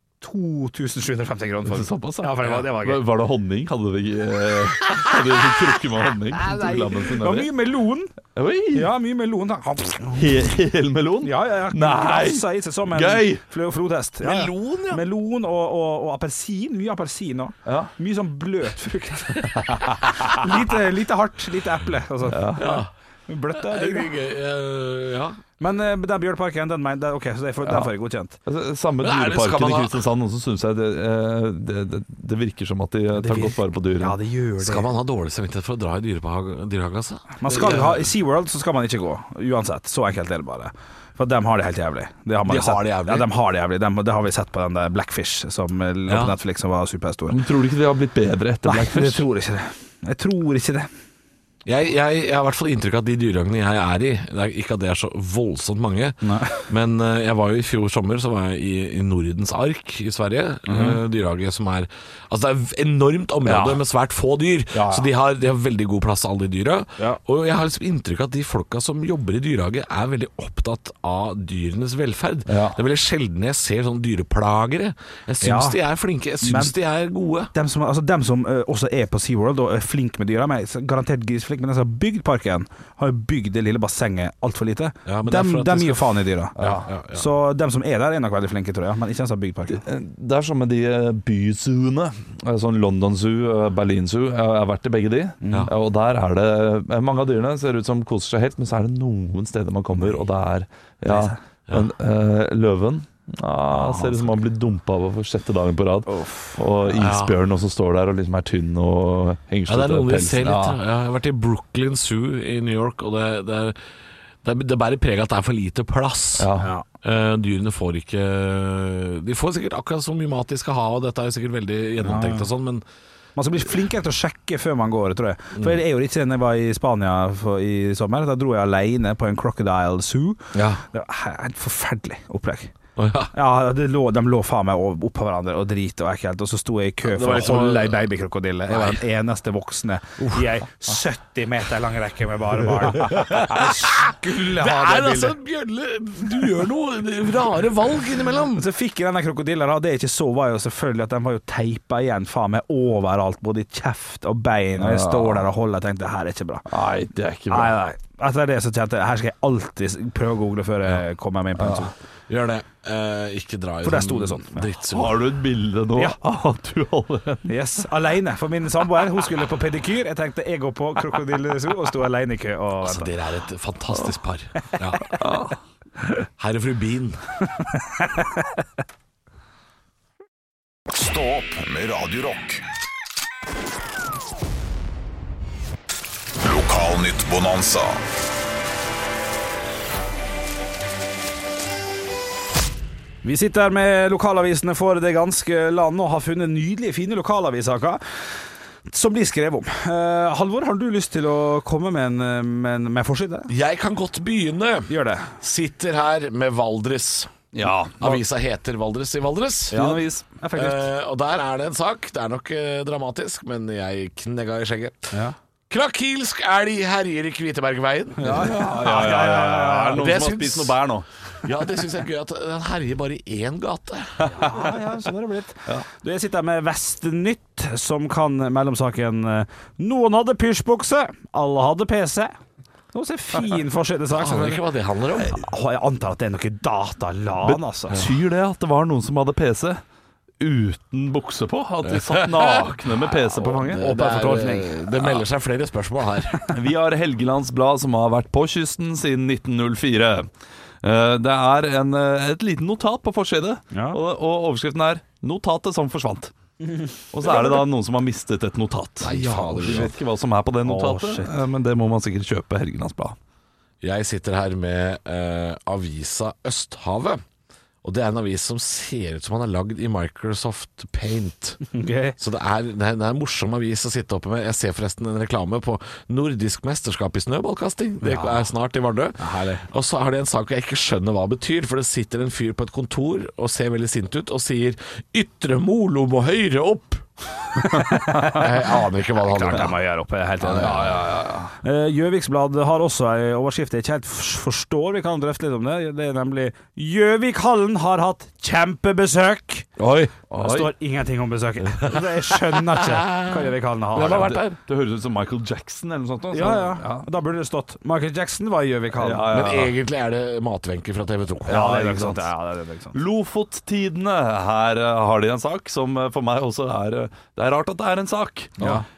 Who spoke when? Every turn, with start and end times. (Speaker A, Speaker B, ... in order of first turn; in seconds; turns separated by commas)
Speaker A: 0.2-3.0, Speaker B: 1.7-7.5, Speaker A: 6.4-8.2, Speaker B: 8.3-8.9, Speaker A: 8.7-10.3, Speaker B: 10.2-13.4, Speaker A: 11.2-24.1, Speaker C: 14.2-15.0, Speaker B: 17.7-17.9, Speaker B: 19.7-20.3, Speaker B: 22.3-22.8, Speaker C: 22.6-22.9, Speaker C: 23.5-25.4, Speaker A: 25.6-28.4, Speaker B: 27.6-27.9, Speaker B: 28.5-34.2, Speaker C: 29.0-30.0, Speaker A: 33.1-34.9, Speaker C: 34.6-38.1, Speaker A: 37.4-47.4, Speaker C: 42.5-43.3, Speaker C: 46.1-46.4, Speaker B: 47.3-49.3, Speaker A: 48.6-50.9, Speaker C: 51.6-77.5, Speaker A: 56.2-56.7, Speaker A: 60.7-61.0, Speaker A: 63.5-63.8, Speaker A: 64.7-65.1, Speaker B: 72.5-72.8, Speaker A: 75.4-75.8, Speaker A: 76.4-76.8, Speaker A: 77.5-86.6, Speaker C: 85.1-87.3, Speaker B: 86.6-86.9, Speaker A: 87.1-89.8, Speaker B: 89.7-110.8, Speaker A: 95.4-95.7, Speaker A: 101.0-101.4, Speaker A: 103.7-104.3, Speaker A: 106.1-106.6, Speaker C: 106.9-107.4, Speaker C: 109.7-113.8, Speaker C: 114.4-122.8, Speaker B: 116.4-116.7, Speaker A: 116.6-116.8, Speaker A: 122.0-122.5, Speaker A: 123.4-132.7, Speaker C: 130.5-130.8, Speaker C: 133.0-133.3, Speaker A: 133.3-145.4, Speaker C: 137.0-138.1, Speaker C: 138.7-139.0, Speaker C: 143.0-148.7, Speaker A: 148.6-156.7, Speaker B: 154.8-155.5, Speaker B: 156.7-157.8, Speaker A: 157.5-161.9, Speaker B: 161.6-161.9, Speaker C: 162.3-165.2, Speaker A: 163.8-164.7, Speaker B: 164.9-167.5, Speaker A: 167.5-173.1, Speaker C: 172.8-175.1, Speaker B: 175.1-175.6, Speaker C: 176.4-177.2, Speaker D: 180.9-182.6, Speaker D: 186.4-187.9, Speaker A: 193.2-203.5, Speaker C: 203.5-207.3, Speaker A: 204.9-205.3, Speaker B: 207.5-208.2, Speaker C: 208.0-209.9, Speaker A: 209.7-210.9, Speaker B: 209.7-210.0, Speaker C: 210.5-215.1, Speaker C: 215.7-218.6, Speaker A: 218.2-220.1, Speaker B: 218.2-221.1, Speaker C: 219.9-220.8, Speaker C: 221.4-224.4, Speaker B: 224.2-224.7, Speaker A: 224.4-232.4, Speaker A: 232.9-234.6, Speaker C: 234.1-235.4, Speaker A: 235.2-238.1, Speaker B: 237.4-239.8, Speaker B: 240.4-243.8, Speaker C: 241.8-246.5, Speaker A: 243.7-244.8, Speaker B: 246.5-250.3, Speaker B: 250.8-256.3, Speaker A: 253.7-254.0, Speaker B: 257.1-263.2, Speaker A: 257.2-257.6, Speaker C: 259.0-259.9, Speaker A: 259.1-259.9, Speaker A: 260.6-261.4, Speaker C: 263.8-267.2, Speaker C: 267.8-271.7, Speaker A: 271.7-272.2, Speaker C: 272.2-287.1, Speaker A: 278.0-278.4, Speaker A: 279.2-279.6, Speaker A: 287.6-299.7, Speaker C: 288.2-289.8, Speaker C: 290.4-291.0, Speaker B: 290.5-291.5, Speaker C: 299.8-300.1, Speaker B: 300.3-300.7, Speaker A: 300.3-304.4, Speaker C: 301.9-304.6, Speaker B: 304.0-307.1, Speaker A: 306.3-309.3, Speaker B: 309.0-309.8, Speaker C: 309.3-311.8, Speaker A: 311.5-313.0, Speaker B: 311.5-312.2, Speaker B: 312.9-318.7, Speaker A: 318.6-318.9